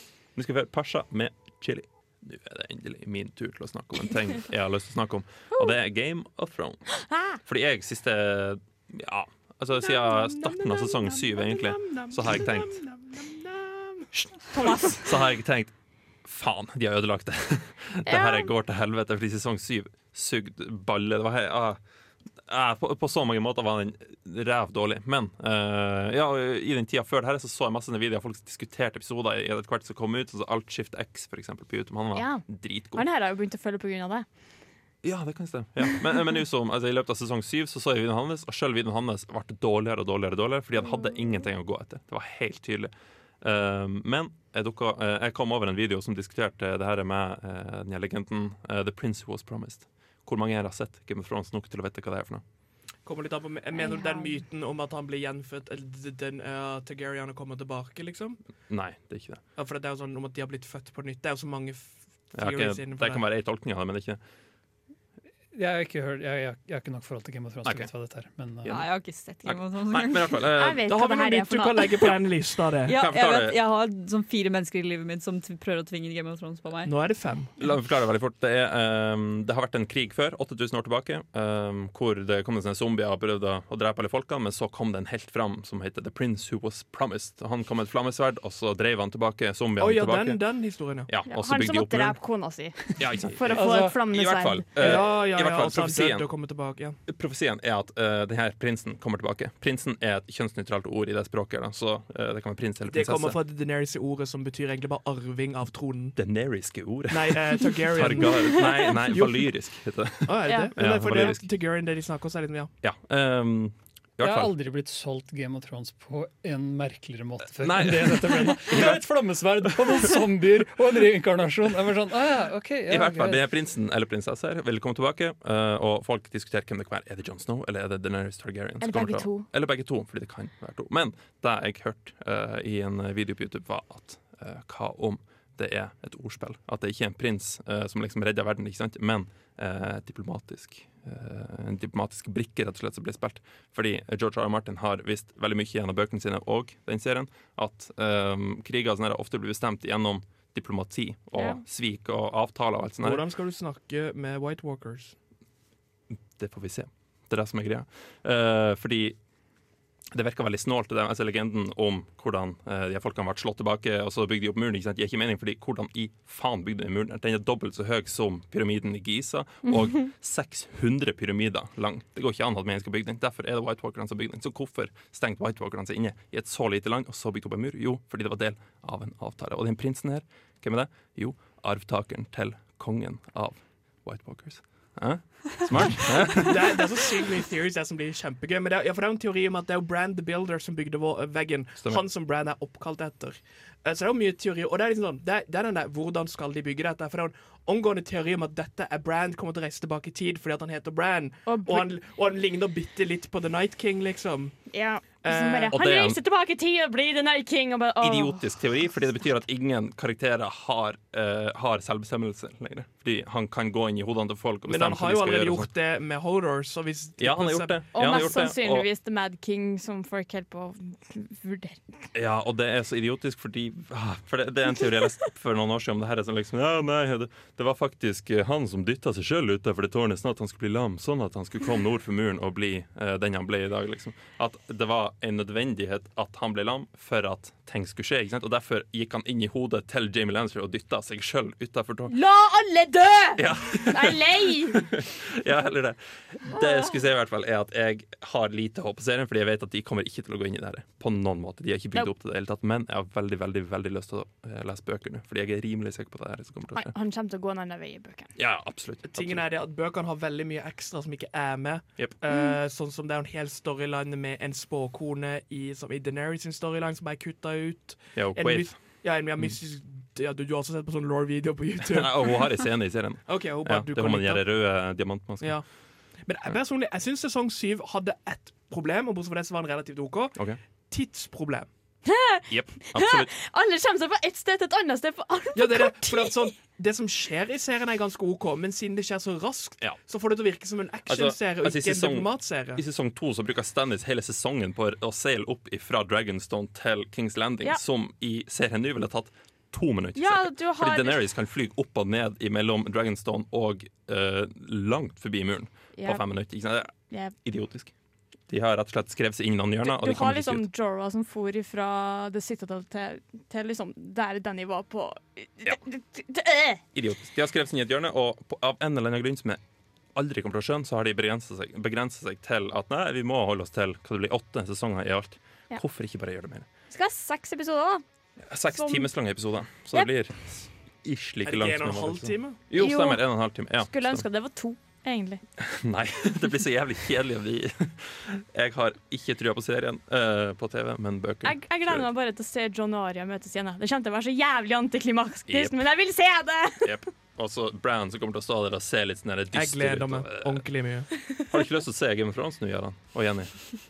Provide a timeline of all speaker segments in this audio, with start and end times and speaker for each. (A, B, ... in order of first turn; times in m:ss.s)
0:00.4-0:12.8 A
0:07.1-0:07.4 B
0:09.8-0:14.1 C
0:14.1-0:15.7 A
0:14.5-0:15.1 B
0:16.2-0:21.8 A
0:18.1-0:18.5 B
0:22.5-0:33.0 A
0:32.2-0:34.3 B
0:35.0-0:52.4 A
0:53.0-0:58.4 C
0:53.8-0:54.3 B
0:58.7-0:59.4 A
0:59.6-1:03.2 C
1:02.4-1:04.2 A
1:05.5-1:08.8 D
1:07.6-1:07.9 A
1:08.7-1:10.4 E
1:09.4-1:10.8 A
1:10.6-1:12.2 B
1:10.8-1:13.0 C
1:12.9-1:16.9 E
1:12.9-1:13.6 A
1:16.8-1:17.5 C
1:17.6-1:30.4 A
1:29.8-1:31.1 C
1:31.1-1:32.2 A
1:31.3-1:34.8 B
1:33.0-1:36.3 A
1:33.5-1:34.0 D
1:34.8-1:37.0 C
1:37.1-1:43.4 A
1:42.9-1:46.2 C
1:46.2-1:51.4 A
1:47.1-1:49.5 C
1:50.2-1:52.7 C
1:50.5-1:50.7 B
1:52.8-1:54.5 A
1:54.2-2:03.4 D
1:57.6-1:59.0 A
2:02.9-2:33.2 A
2:08.8-2:09.5 B
2:33.0-2:35.2 C
2:36.4-2:39.2 A
2:40.1-3:06.9 A
3:05.9-3:24.6 C
3:21.5-3:21.9 B
3:24.7-3:28.5 B
3:25.2-3:25.8 C
3:25.7-3:26.2 A
3:28.0-3:35.7 A
3:34.7-3:38.1 C
3:37.2-3:38.9 A
3:37.9-3:42.0 B
3:42.1-4:02.2 A
4:02.1-4:04.9 B
4:03.4-4:16.9 A
4:16.7-4:18.3 B
4:18.4-4:19.4 A
4:19.1-4:32.4 C
4:22.3-4:22.6 B
4:28.2-4:28.8 A
4:31.8-4:35.6 A
4:33.3-4:34.4 C
4:35.4-4:35.6 C
4:36.2-4:40.4 C
4:40.9-4:41.7 C
4:42.1-4:46.5 B
4:42.5-4:43.3 A
4:45.6-4:52.8 C
4:51.1-5:06.9 A
5:00.2-5:01.2 B
5:06.0-5:06.2 B
5:07.1-5:07.4 B
5:07.4-5:07.9 A
5:08.5-5:10.6 A
5:09.8-5:16.8 B
5:17.0-5:19.6 A
5:20.1-5:26.7 A
5:26.9-5:28.0 B
5:28.4-5:34.2 A
5:28.7-5:29.1 B
5:31.4-5:32.6 C
5:32.8-5:35.4 B
5:35.6-5:42.1 A
5:41.4-5:47.0 B
5:45.5-5:45.8 A
5:46.8-5:50.6 A
5:49.5-5:51.1 C
5:51.5-5:53.5 A